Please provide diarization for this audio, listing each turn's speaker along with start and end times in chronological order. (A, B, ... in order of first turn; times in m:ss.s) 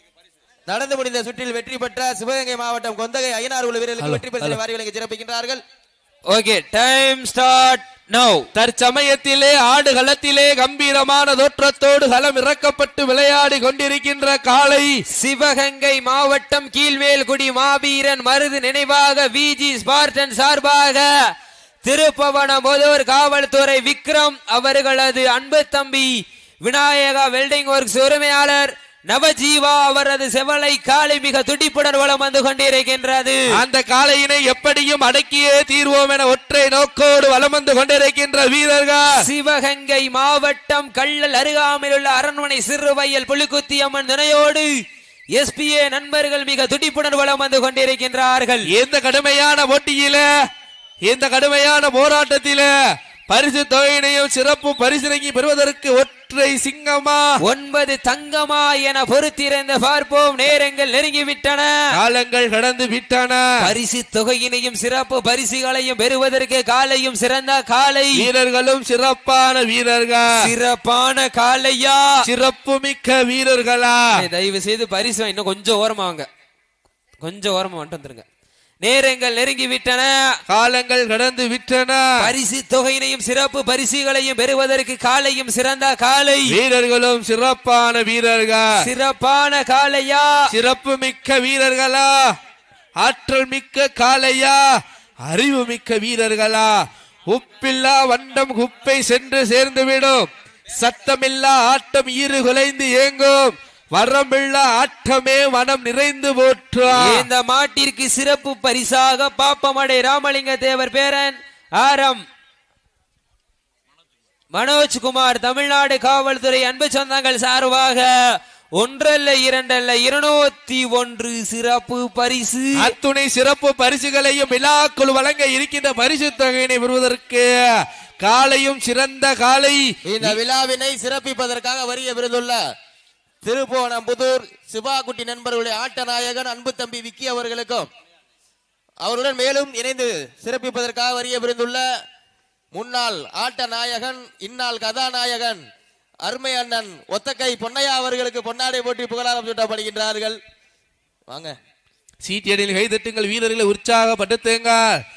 0:00.7-0:05.6 A
0:04.0-0:04.6 B
0:06.3-0:08.5 C
0:08.5-0:15.0 B
0:15.1-0:21.1 C
0:21.8-0:26.1 C
0:26.6-0:33.4 C
0:33.5-0:39.2 B
0:39.2-0:44.7 C
0:45.4-0:48.7 C
0:48.7-0:50.3 B
0:51.0-0:52.7 B
0:53.3-0:57.4 B
0:57.4-1:01.7 C
1:01.9-1:03.4 B
1:03.6-1:08.3 C
1:08.1-1:10.4 B
1:10.4-1:12.1 C
1:12.2-1:14.0 B
1:14.1-1:16.3 C
1:17.2-1:18.2 C
1:18.8-1:20.2 C
1:20.5-1:22.2 B
1:22.2-1:26.6 C
1:26.5-1:28.7 B
1:28.8-1:30.3 C
1:30.5-1:32.2 B
1:33.0-1:34.6 B
1:35.2-1:47.3 B
1:46.9-1:52.2 C
1:54.5-1:58.1 C
1:58.8-2:02.9 C
2:02.8-2:07.5 B
2:08.2-2:10.4 B
2:10.1-2:12.6 A
2:13.4-2:17.8 A
2:19.0-2:21.8 A
2:22.7-2:25.6 A
2:26.2-2:30.4 A
2:32.2-2:34.8 B